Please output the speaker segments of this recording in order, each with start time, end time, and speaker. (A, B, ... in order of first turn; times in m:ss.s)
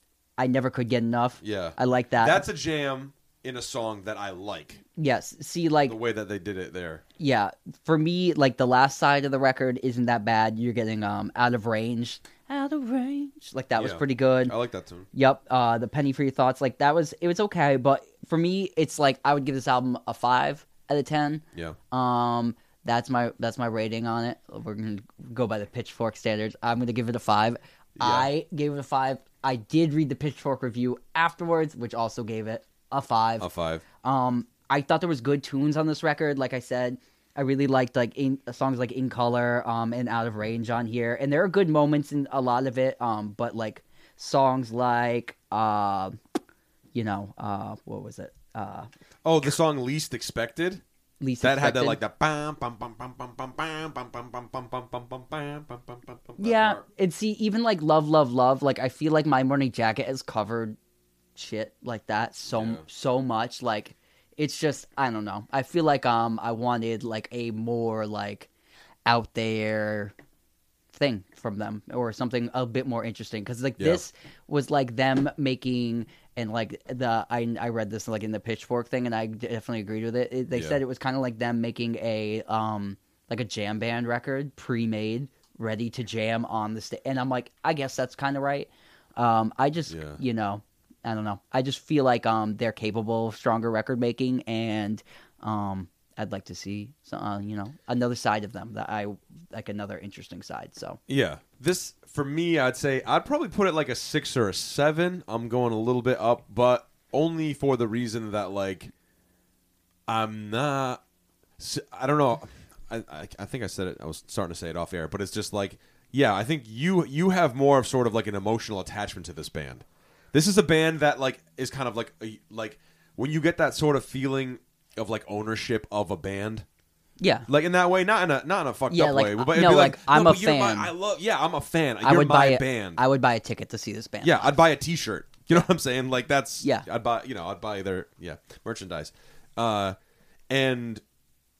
0:00.4-0:02.4 A
0:01.4-0:04.8 B
0:05.0-0:06.0 A
0:05.8-0:07.0 B
0:07.2-0:14.5 A
0:13.8-0:15.1 B
0:15.1-0:33.5 A
0:28.0-0:28.3 B
0:33.4-0:33.8 B
0:34.0-0:46.2 A
0:46.9-0:48.9 A
0:49.2-0:50.8 B
0:51.2-0:52.0 A
0:51.4-0:56.8 B
0:56.4-1:00.8 A
1:01.4-1:08.5 A
1:02.5-1:02.8 B
1:09.0-1:10.1 A
1:10.9-1:41.0 A
1:13.8-1:14.0 B
1:20.5-1:20.8 B
1:29.9-1:30.2 B
1:41.1-1:48.9 B
1:50.1-1:51.0 B
1:51.6-2:06.6 B
2:07.2-2:07.5 A
2:07.5-2:13.0 B
2:08.9-2:10.9 A
2:12.0-2:14.6 A
2:14.2-2:20.0 B
2:20.5-2:21.0 B